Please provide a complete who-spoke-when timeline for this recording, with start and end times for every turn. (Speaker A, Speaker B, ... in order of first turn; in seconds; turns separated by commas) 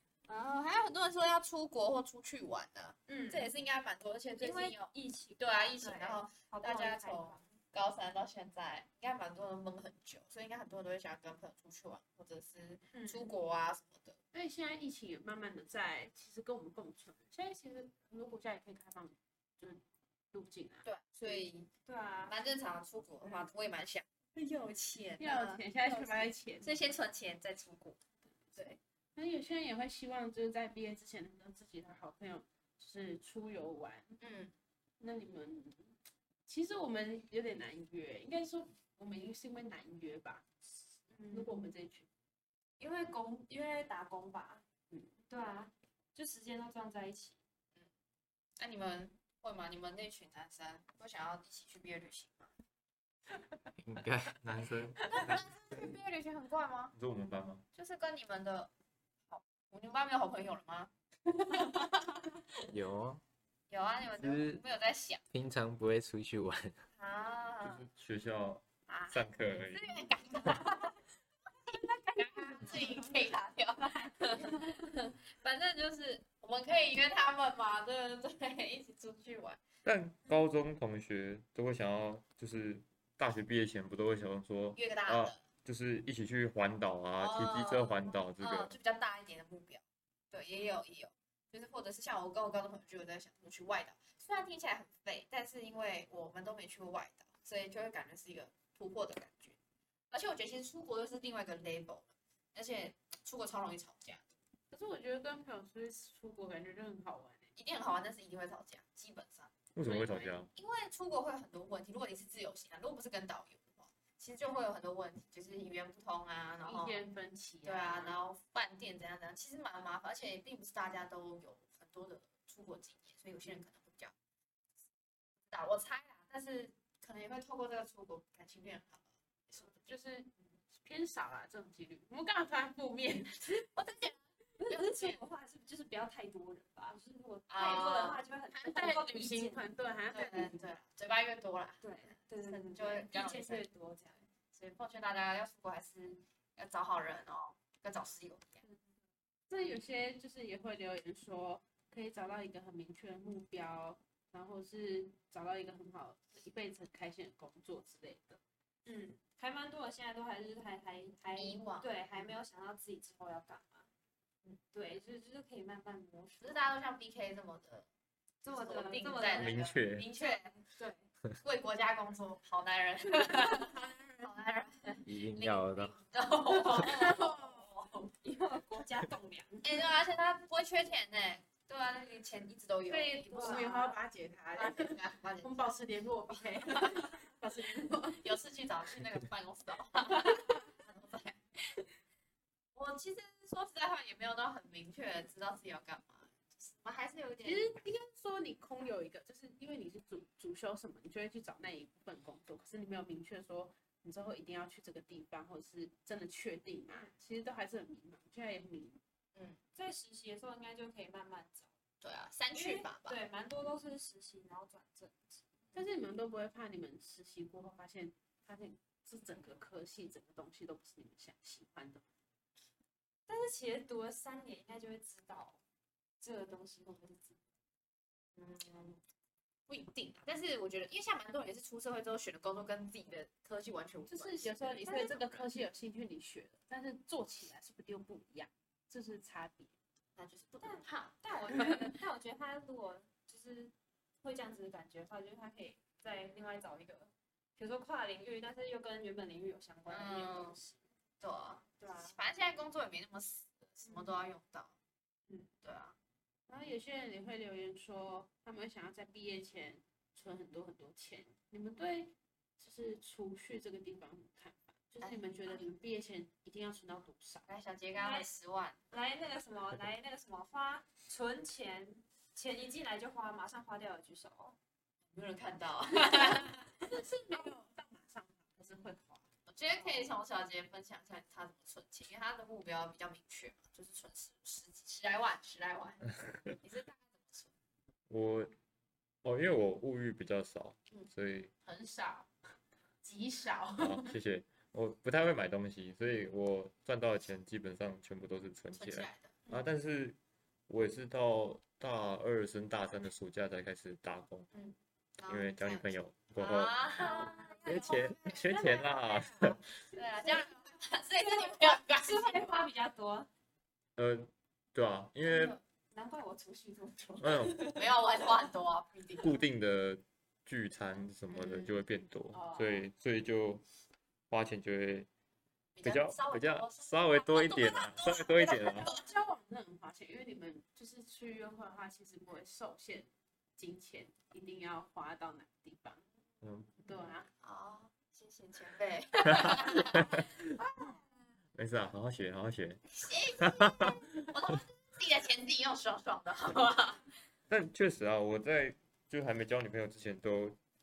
Speaker A: 0.3-14.2, Speaker B: 3.1-3.5, Speaker B: 4.4-7.5, Speaker B: 12.9-13.3, Speaker C: 14.3-21.4, Speaker A: 20.8-21.7, Speaker B: 21.9-22.3, Speaker A: 22.3-28.0, Speaker B: 24.4-24.7, Speaker C: 25.2-26.8, Speaker C: 29.1-34.2, Speaker A: 34.2-34.5, Speaker C: 35.0-35.9, Speaker C: 36.5-40.5, Speaker B: 41.1-41.7, Speaker C: 41.3-42.1, Speaker B: 42.8-44.6, Speaker B: 45.3-47.4, Speaker A: 48.6-52.5, Speaker D: 53.8-54.4, Speaker E: 54.4-55.4, Speaker A: 55.1-56.9, Speaker E: 56.9-57.6, Speaker A: 57.7-58.7, Speaker A: 59.3-60.9, Speaker D: 62.7-63.2, Speaker A: 63.7-65.2, Speaker D: 64.2-64.6, Speaker D: 65.3-66.8, Speaker A: 67.0-67.8, Speaker E: 67.6-69.9, Speaker A: 68.9-71.0, Speaker A: 71.7-79.6, Speaker E: 79.8-88.7, Speaker A: 84.8-85.4, Speaker A: 87.2-99.6, Speaker A: 100.1-104.2, Speaker C: 104.7-107.5, Speaker A: 107.5-117.0, Speaker E: 109.7-110.5, Speaker C: 116.6-118.1, Speaker A: 117.6-124.1, Speaker A: 125.5-130.0, Speaker C: 129.8-133.7, Speaker A: 133.7-135.2, Speaker B: 134.6-139.7, Speaker A: 137.5-138.2, Speaker C: 138.5-140.5, Speaker A: 140.1-141.8, Speaker B: 141.8-144.2, Speaker A: 142.4-143.7, Speaker A: 144.5-148.6, Speaker C: 149.5-158.4, Speaker B: 158.8-163.9, Speaker A: 161.3-161.9, Speaker B: 164.7-166.7, Speaker A: 166.4-167.9, Speaker A: 168.4-170.6, Speaker B: 168.4-171.1, Speaker E: 169.3-170.1, Speaker A: 171.4-178.0, Speaker C: 173.4-174.3, Speaker D: 175.0-176.0, Speaker C: 176.6-177.7, Speaker B: 178.2-179.8, Speaker A: 179.6-183.8, Speaker C: 182.9-188.2, Speaker B: 183.3-184.0, Speaker A: 184.5-185.7, Speaker A: 186.7-187.0, Speaker A: 188.1-191.4, Speaker A: 192.7-197.7, Speaker C: 197.4-209.0, Speaker B: 209.8-211.7, Speaker A: 212.0-213.2, Speaker B: 212.5-215.4, Speaker C: 215.7-222.0, Speaker B: 223.3-225.6, Speaker B: 226.2-227.4, Speaker A: 228.3-229.0, Speaker A: 229.7-234.9, Speaker C: 234.1-239.7, Speaker B: 234.8-235.6, Speaker A: 240.2-241.8, Speaker B: 240.6-250.8, Speaker A: 249.9-250.6, Speaker A: 251.2-254.7, Speaker B: 251.8-252.2, Speaker B: 253.8-254.1, Speaker A: 255.6-255.9, Speaker C: 256.5-267.4, Speaker A: 265.0-265.6, Speaker A: 267.4-268.8, Speaker B: 268.0-268.3, Speaker B: 268.9-274.6, Speaker A: 275.1-276.6, Speaker C: 276.2-279.2, Speaker A: 279.5-287.5, Speaker E: 288.1-288.5, Speaker E: 289.2-291.5, Speaker C: 291.6-292.3, Speaker C: 293.0-294.1, Speaker E: 293.8-300.2, Speaker A: 298.7-299.5, Speaker E: 300.7-304.5, Speaker A: 304.5-308.9, Speaker E: 305.3-306.9, Speaker B: 307.0-308.8, Speaker E: 307.6-309.6, Speaker A: 309.9-312.5, Speaker B: 311.2-313.3, Speaker E: 313.9-315.6, Speaker A: 315.3-315.6, Speaker B: 315.9-317.8, Speaker E: 317.2-317.7, Speaker A: 317.7-319.4, Speaker E: 319.2-323.6, Speaker A: 321.3-321.7, Speaker E: 324.3-325.1, Speaker A: 325.8-329.1, Speaker E: 325.8-328.9, Speaker C: 328.6-336.0, Speaker E: 336.4-336.7, Speaker C: 336.8-337.3, Speaker A: 337.4-340.2, Speaker E: 341.5-344.0, Speaker A: 342.9-347.1, Speaker E: 347.5-350.6